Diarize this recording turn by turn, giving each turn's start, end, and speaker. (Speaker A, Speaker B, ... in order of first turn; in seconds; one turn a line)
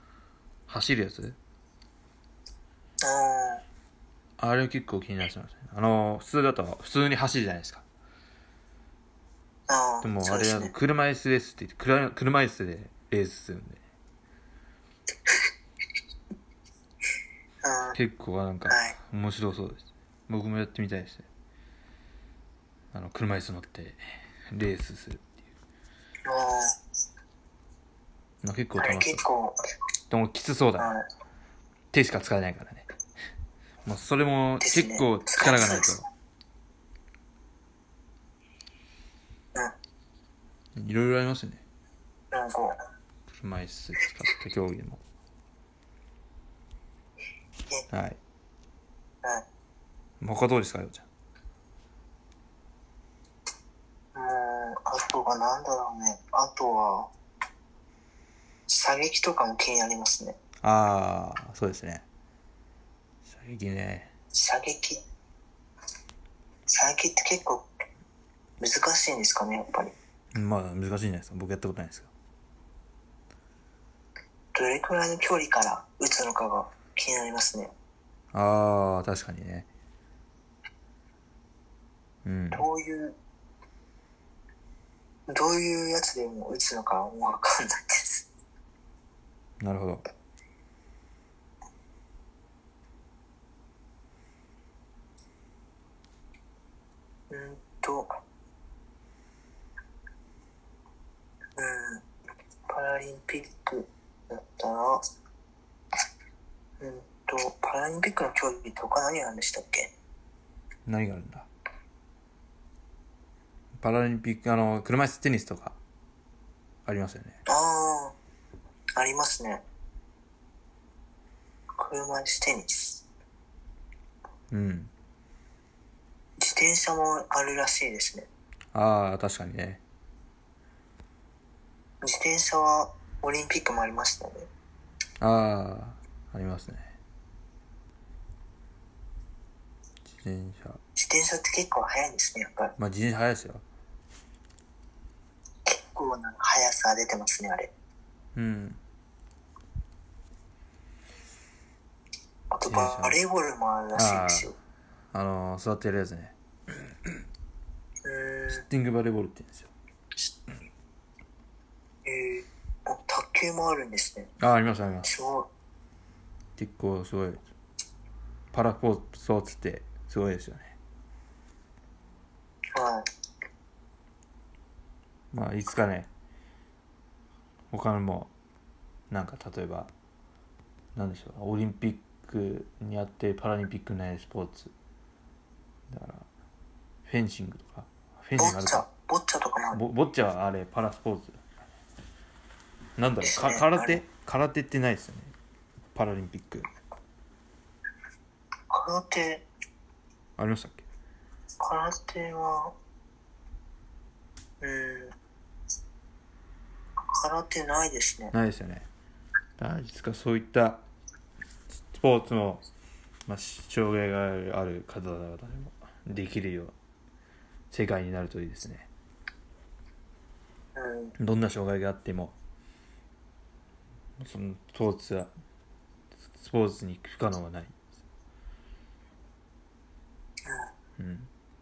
Speaker A: 0.7-1.4
Speaker B: 3.0-3.6
Speaker A: 4.4-7.8
Speaker B: 9.7-10.7
Speaker A: 10.0-13.8
Speaker B: 17.6-18.0
Speaker A: 17.9-21.2
Speaker B: 18.7-18.9
Speaker A: 22.9-25.3
Speaker B: 26.2-26.8
Speaker A: 28.4-29.2
Speaker B: 28.8-29.6
Speaker A: 30.1-30.9
Speaker B: 30.8-31.1
Speaker A: 31.9-32.8
Speaker A: 33.8-36.0
Speaker B: 34.6-35.9
Speaker A: 40.8-41.6
Speaker B: 42.3-42.8
Speaker A: 43.3-45.0
Speaker A: 47.9-48.2
Speaker A: 50.2-51.0
Speaker B: 54.1-57.1
Speaker B: 58.7-60.4
Speaker A: 60.6-62.0
Speaker A: 63.2-64.1
Speaker B: 64.3-65.0
Speaker B: 66.7-67.7
Speaker B: 68.6-69.9
Speaker A: 70.3-72.1
Speaker B: 74.5-77.7
Speaker A: 78.3-79.7
Speaker A: 82.2-82.7
Speaker B: 82.5-83.2
Speaker B: 85.3-88.3
Speaker A: 89.6-90.0
Speaker B: 97.3-98.1
Speaker B: 101.6-102.0
Speaker B: 102.7-105.0
Speaker B: 106.8-109.9
Speaker A: 110.8-111.5
Speaker A: 113.8-115.8
Speaker A: 116.8-117.4
Speaker B: 117.5-118.1
Speaker B: 118.9-119.6
Speaker B: 121.8-123.0
Speaker A: 124.5-124.9
Speaker B: 126.4-128.3
Speaker A: 128.7-129.8
Speaker B: 132.0-134.5
Speaker A: 135.2-136.9
Speaker A: 140.2-140.8
Speaker B: 140.9-142.8
Speaker A: 142.8-143.6
Speaker B: 145.7-147.7
Speaker A: 148.3-148.8
Speaker B: 152.5-154.6
Speaker A: 152.6-153.2
Speaker A: 153.9-154.5
Speaker A: 155.1-157.1
Speaker B: 158.0-158.6
Speaker A: 158.5-159.7
Speaker B: 162.0-164.3
Speaker A: 164.4-165.1
Speaker B: 165.0-165.5
Speaker A: 166.6-167.4
Speaker A: 168.5-170.8
Speaker B: 172.8-173.0
Speaker A: 175.3-176.1
Speaker A: 177.7-178.3
Speaker A: 179.1-179.9
Speaker A: 180.9-184.7
Speaker A: 185.9-186.2
Speaker A: 187.1-188.8
Speaker B: 188.4-189.8
Speaker A: 189.7-191.4
Speaker A: 193.0-195.3
Speaker B: 193.2-194.0
Speaker A: 195.9-196.7
Speaker B: 198.7-199.5
Speaker A: 200.4-200.8
Speaker B: 201.6-202.8
Speaker B: 204.6-205.2
Speaker B: 207.1-208.3
Speaker A: 208.3-208.8
Speaker A: 209.6-210.8
Speaker A: 211.9-212.6
Speaker A: 213.3-216.7
Speaker A: 217.7-218.9
Speaker B: 220.8-221.2
Speaker A: 221.2-222.3
Speaker A: 224.2-225.3
Speaker A: 226.4-227.7
Speaker A: 231.0-231.3